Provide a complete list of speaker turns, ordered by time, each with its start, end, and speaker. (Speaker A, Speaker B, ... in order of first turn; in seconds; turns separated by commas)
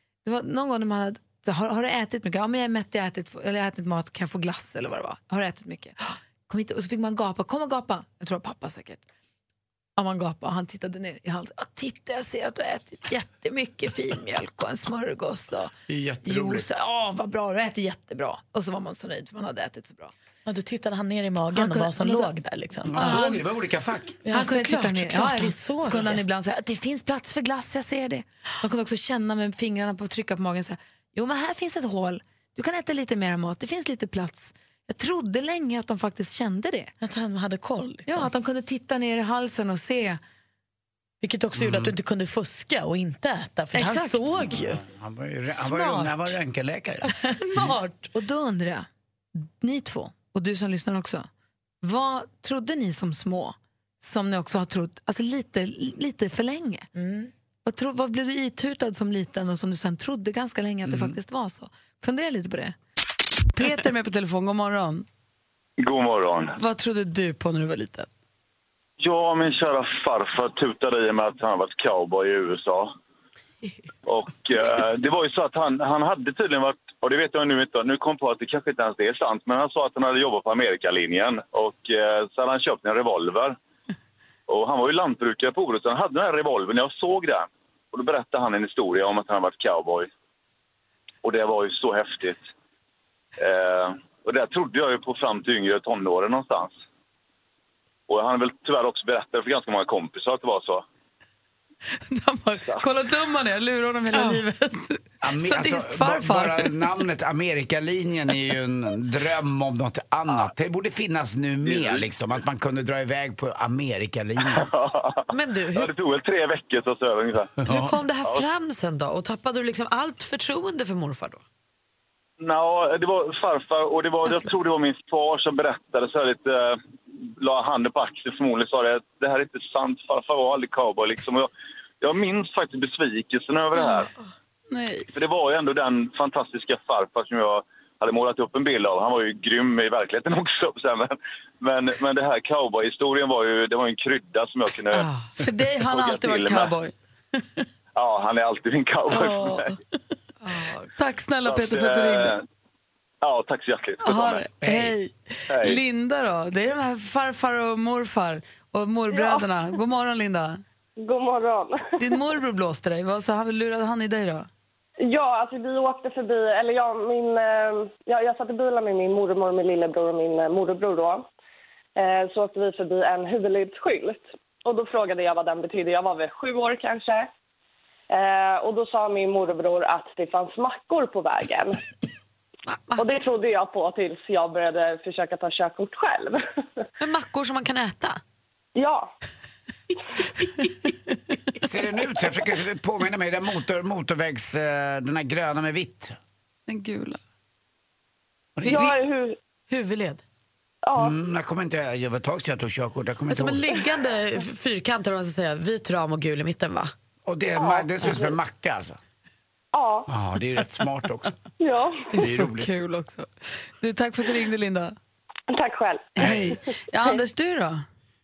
Speaker A: 0.2-9.0, Speaker A: 10.0-15.7, Speaker B: 15.9-16.7, Speaker A: 16.3-20.1, Speaker C: 20.4-23.3, Speaker A: 21.5-22.3, Speaker B: 22.8-24.2, Speaker A: 22.9-23.4, Speaker C: 24.2-26.2, Speaker A: 24.3-36.9, Speaker C: 37.0-38.3, Speaker A: 38.1-40.2, Speaker C: 41.2-44.8, Speaker B: 41.5-42.0, Speaker A: 43.7-44.5, Speaker B: 44.5-47.7, Speaker C: 45.5-46.3, Speaker C: 47.0-48.1, Speaker A: 48.1-48.9, Speaker A: 49.4-51.3, Speaker A: 51.8-56.9, Speaker C: 57.0-57.3, Speaker A: 57.6-62.8, Speaker B: 60.9-61.2, Speaker A: 63.5-65.1, Speaker D: 65.8-66.5, Speaker A: 66.6-68.1, Speaker D: 69.0-72.9, Speaker D: 74.1-83.6, Speaker D: 84.5-90.1, Speaker D: 91.2-92.4, Speaker D: 93.4-96.7, Speaker D: 98.1-100.8, Speaker A: 102.0-106.7, Speaker C: 104.1-104.5, Speaker B: 105.2-114.7, Speaker D: 111.6-112.1, Speaker D: 114.5-117.5, Speaker C: 115.3-115.9, Speaker B: 117.6-118.0, Speaker C: 117.7-121.4, Speaker D: 122.4-126.8, Speaker C: 124.3-124.5, Speaker D: 127.4-131.5, Speaker D: 132.0-134.1, Speaker A: 134.7-135.2, Speaker D: 135.1-145.1, Speaker C: 144.9-145.3, Speaker A: 145.4-146.9, Speaker D: 145.8-146.7, Speaker D: 148.0-149.8, Speaker C: 149.2-149.7, Speaker C: 150.4-150.9, Speaker A: 150.9-152.4, Speaker D: 151.5-152.4, Speaker D: 153.2-154.4, Speaker A: 154.0-160.6, Speaker B: 154.6-154.9, Speaker D: 155.5-155.8, Speaker E: 159.1-159.4, Speaker E: 161.0-162.0, Speaker A: 162.0-164.5, Speaker E: 165.0-171.3, Speaker E: 172.0-177.3, Speaker E: 178.1-181.8, Speaker C: 182.7-183.0, Speaker E: 183.0-186.5, Speaker C: 187.0-188.2, Speaker E: 188.8-189.1, Speaker B: 191.6-196.2, Speaker A: 196.7-197.2, Speaker B: 198.6-198.8, Speaker E: 198.7-199.4, Speaker C: 199.7-200.2, Speaker E: 200.8-201.2, Speaker B: 201.0-203.7, Speaker C: 203.3-206.9, Speaker B: 207.2-209.0, Speaker E: 207.6-208.4, Speaker E: 209.7-210.1, Speaker B: 210.1-211.4, Speaker E: 211.6-212.1, Speaker A: 212.1-213.3, Speaker B: 212.2-212.6, Speaker A: 213.8-215.0, Speaker E: 215.5-216.3, Speaker A: 216.2-217.8, Speaker B: 216.2-216.5